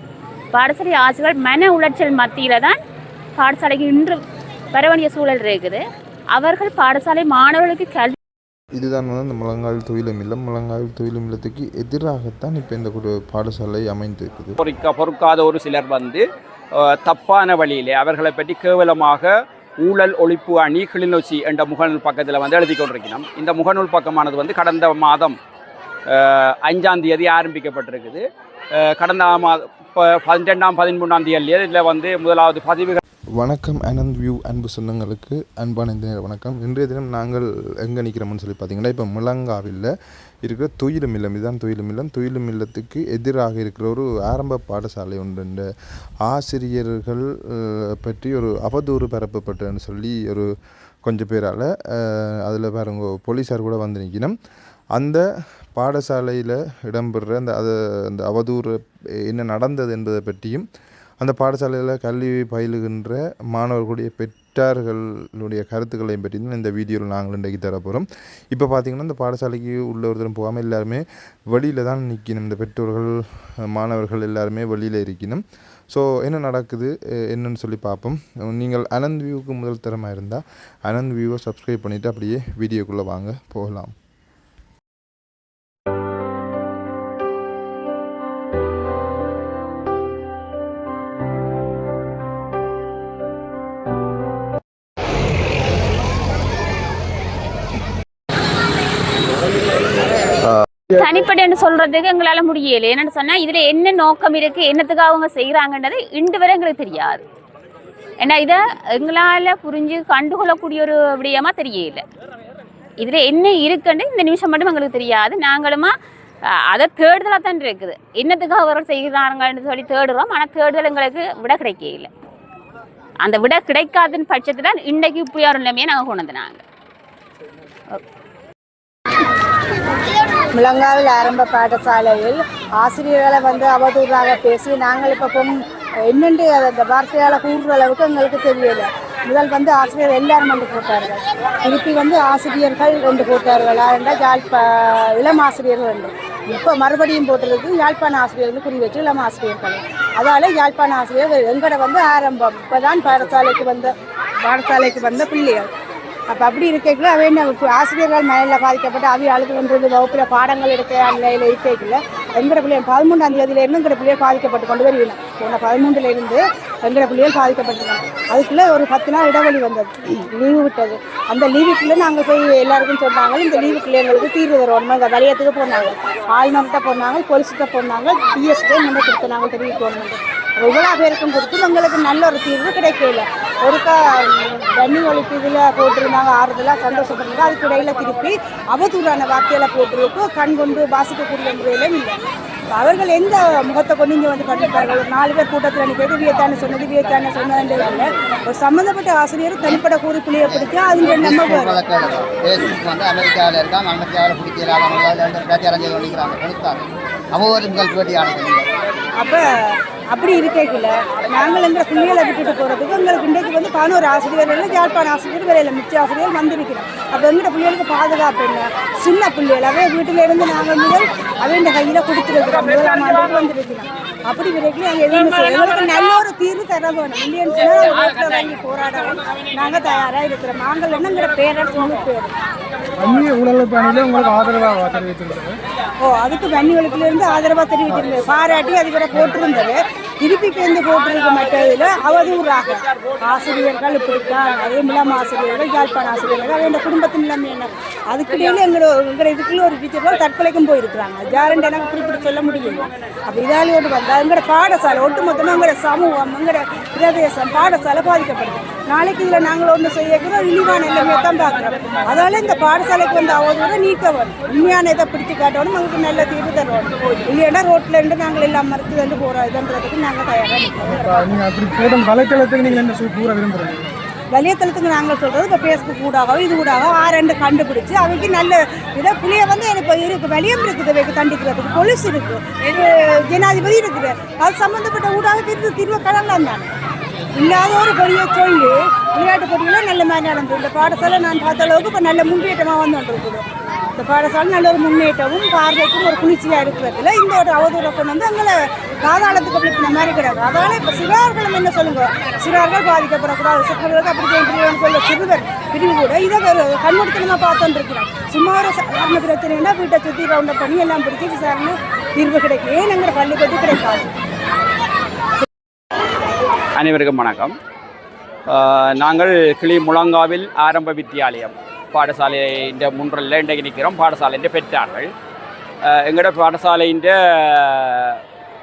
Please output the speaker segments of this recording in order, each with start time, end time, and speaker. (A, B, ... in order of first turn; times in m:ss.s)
0:00.5-0:02.8 A
0:03.4-0:04.2 A
0:04.7-0:05.8 A
0:06.3-0:08.2 A
0:08.8-0:14.6 B
0:14.6-0:16.2 C
0:16.8-0:19.3 C
0:19.8-0:25.4 C
0:26.1-0:28.2 C
0:28.9-0:33.0 C
0:33.4-0:39.9 B
0:40.4-0:45.6 B
0:46.2-0:50.5 B
0:51.0-0:54.3 B
0:54.9-0:55.2 B
0:55.7-1:00.6 B
1:01.2-1:23.9 B
1:40.9-1:47.2 A
1:48.2-1:52.0 A
1:53.0-1:55.9 A
1:56.7-2:02.1 A
2:03.2-2:06.6 A
2:10.5-2:15.6 D
2:16.1-2:35.7 D
2:36.3-3:12.2 D
3:12.7-3:21.8 D
3:21.0-3:28.7 E
3:29.2-3:52.3 D
3:53.0-3:55.6 F
3:56.0-4:31.4 D
4:30.9-4:33.9 F
4:34.3-4:46.7 D
4:47.4-5:14.1 D
5:16.8-5:17.5 C
5:18.5-5:25.1 C
5:25.9-5:28.2 C